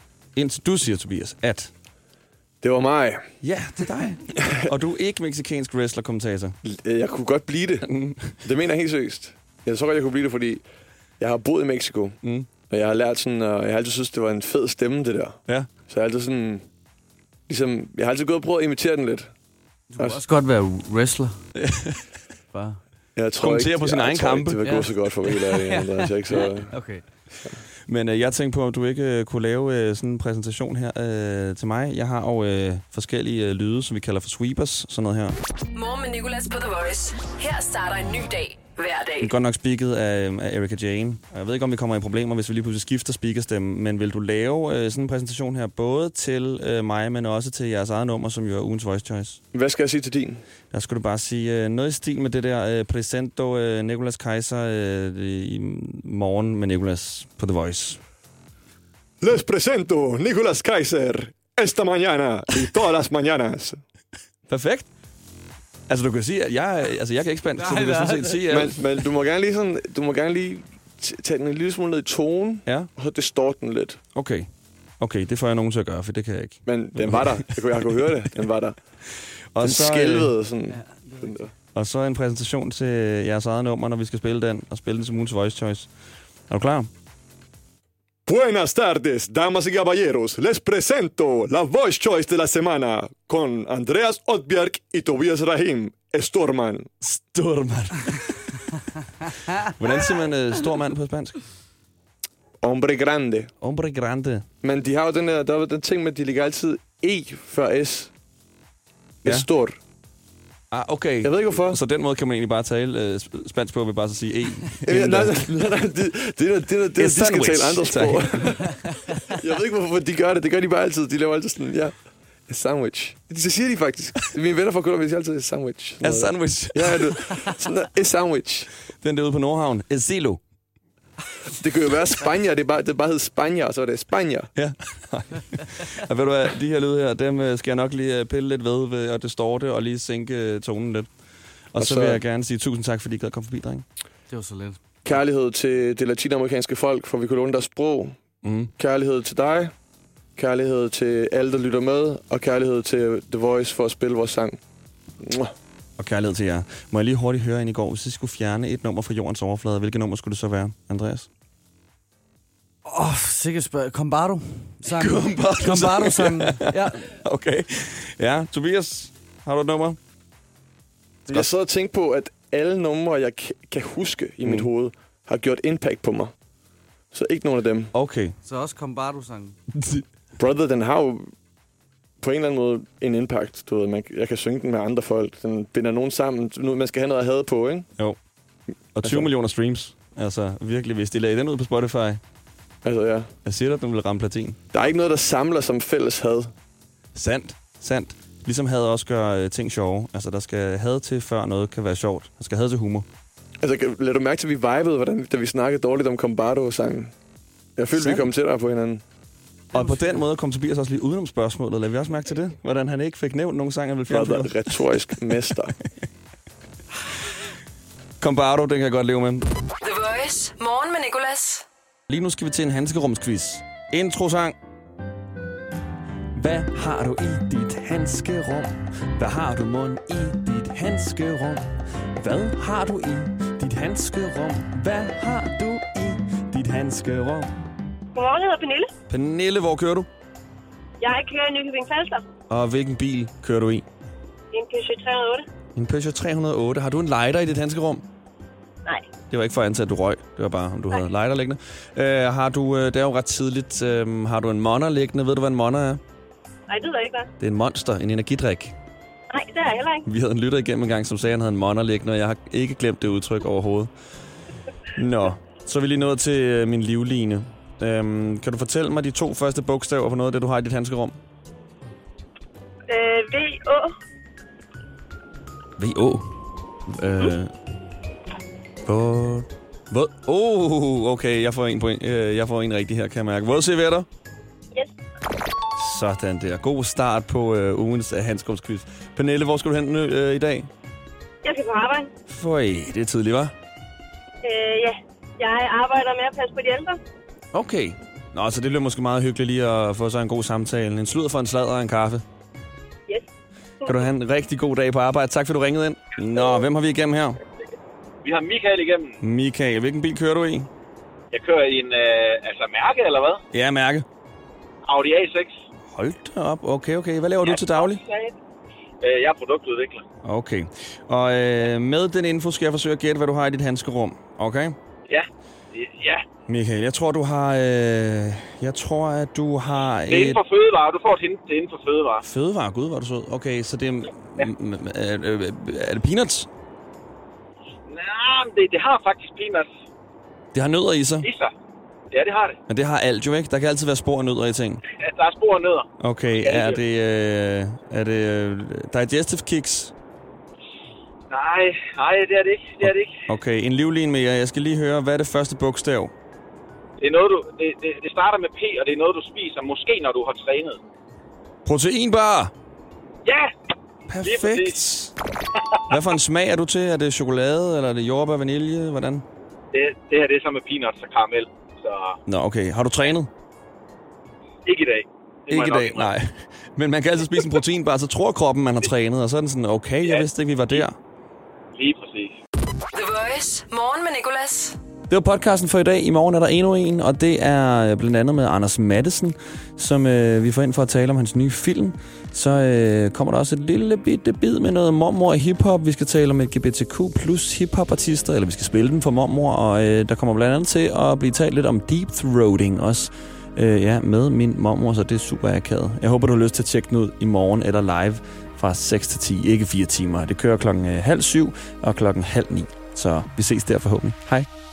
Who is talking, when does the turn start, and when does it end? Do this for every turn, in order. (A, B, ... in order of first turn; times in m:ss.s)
0:00.4-0:01.7 A
0:02.6-0:03.3 B
0:03.4-0:06.6 A
0:04.4-0:04.7 B
0:06.6-0:07.9 B
0:07.8-0:08.4 A
0:08.4-0:10.6 B
0:11.2-0:12.2 B
0:12.2-0:12.5 A
0:12.7-0:16.7 B
0:17.5-0:19.3 B
0:19.9-0:21.4 C
0:21.6-0:22.0 A
0:22.5-0:22.8 C
0:23.2-0:26.7 B
0:23.4-0:24.7 A
0:24.6-0:27.0 C
0:27.9-0:35.4 A
0:35.7-0:39.3 D
0:39.2-0:49.4 A
0:49.5-0:50.4 B
0:50.7-0:58.0 A
0:59.2-1:03.8 B
1:04.5-1:04.9 A
1:05.9-1:08.8 A
1:07.6-1:08.4 C
1:08.5-1:14.0 B
1:14.1-1:14.5 A
1:15.0-1:17.5 A
1:16.7-1:18.8 B
1:19.5-1:20.3 A
1:19.6-1:21.5 B
1:20.8-1:21.3 C
1:21.7-1:25.9 A
1:26.5-1:26.9 A
1:28.3-1:36.9 B
1:37.0-1:38.8 A
1:39.5-1:41.4 A
1:42.6-1:43.5 B
1:43.6-1:44.5 A
1:44.6-1:48.1 B
1:49.2-1:49.8 B
1:50.7-1:55.4 A
1:51.2-1:51.8 B
1:54.8-2:02.0 B
1:57.0-1:58.6 A
2:02.5-2:08.7 B
2:06.0-2:07.4 A
2:09.0-2:10.4 A
2:11.5-2:14.5 B
2:14.6-2:21.1 A
2:21.7-2:23.8 A
2:21.8-2:22.2 B
2:24.3-2:24.8 C
2:25.0-2:28.2 B
2:28.4-2:28.7 A
2:28.8-2:29.7 B
2:30.4-2:34.6 B
2:35.2-2:35.6 B
2:36.0-2:41.3 A
2:42.8-2:47.1 C
2:44.9-2:50.0 A
2:51.3-2:56.3 B
2:54.4-2:54.7 A
2:57.1-2:57.9 B
2:57.9-2:58.4 A
2:58.4-2:59.6 C
3:00.4-3:01.3 B
3:02.2-3:07.9 B
3:09.0-3:12.2 A
3:09.0-3:09.3 B
3:12.8-3:13.3 B
3:13.4-3:14.6 A
3:14.7-3:16.5 B
3:17.2-3:23.1 A
3:23.6-3:27.1 B
3:27.8-3:29.0 B
3:27.9-3:28.3 A
3:29.7-3:35.4 A
3:34.1-3:35.8 B
3:38.2-3:39.5 A
3:39.8-3:41.7 D
3:42.1-3:44.6 A
3:46.3-3:57.5 A
3:58.2-3:58.9 E
3:59.1-4:00.1 A
4:01.0-4:02.2 E
4:02.5-4:03.8 A
4:04.5-4:05.5 E
4:05.8-4:08.0 A
4:09.3-4:16.0 A
4:16.7-4:17.3 E
4:17.4-4:18.7 A
4:19.3-4:20.0 E
4:20.0-4:23.9 A
4:25.0-4:31.2 A
4:32.9-4:34.0 E
4:35.8-4:36.3 A
4:36.9-4:37.5 A
4:38.9-4:44.1 A
4:45.8-4:50.7 A
4:51.4-4:52.1 E
4:52.3-4:53.5 A
4:54.4-4:57.0 E
4:57.5-5:02.2 A
5:03.8-5:07.4 A
5:06.4-5:06.6 E
5:08.2-5:09.2 F
5:09.2-5:10.7 A
5:11.3-5:13.4 F
5:13.5-5:14.1 A
5:14.8-5:15.5 F
5:15.9-5:18.0 A
5:17.4-5:18.3 F
5:19.0-5:20.0 F
5:20.2-5:24.8 A
5:25.1-5:26.3 F
5:26.5-5:30.4 A
5:30.1-5:32.2 F
5:32.2-5:36.5 A
5:37.9-5:39.7 F
5:40.5-5:41.3 A
5:41.2-5:41.5 F
5:42.1-5:42.6 F
5:42.7-5:44.8 A
5:44.9-5:45.9 F
5:46.0-5:49.9 A
5:46.4-5:46.8 F
5:51.3-5:53.2 F
5:52.8-5:56.1 A
5:57.0-6:00.8 F
6:01.7-6:02.5 A
6:03.2-6:03.5 F
6:04.1-6:05.1 A
6:04.2-6:04.8 F
6:05.6-6:06.0 F
6:05.9-6:09.2 A
6:09.7-6:12.2 F
6:12.3-6:13.3 A
6:14.6-6:16.1 F
6:15.5-6:21.0 A
6:20.0-6:20.9 F
6:21.7-6:22.4 F
6:22.9-6:24.8 D
6:25.1-6:54.5 A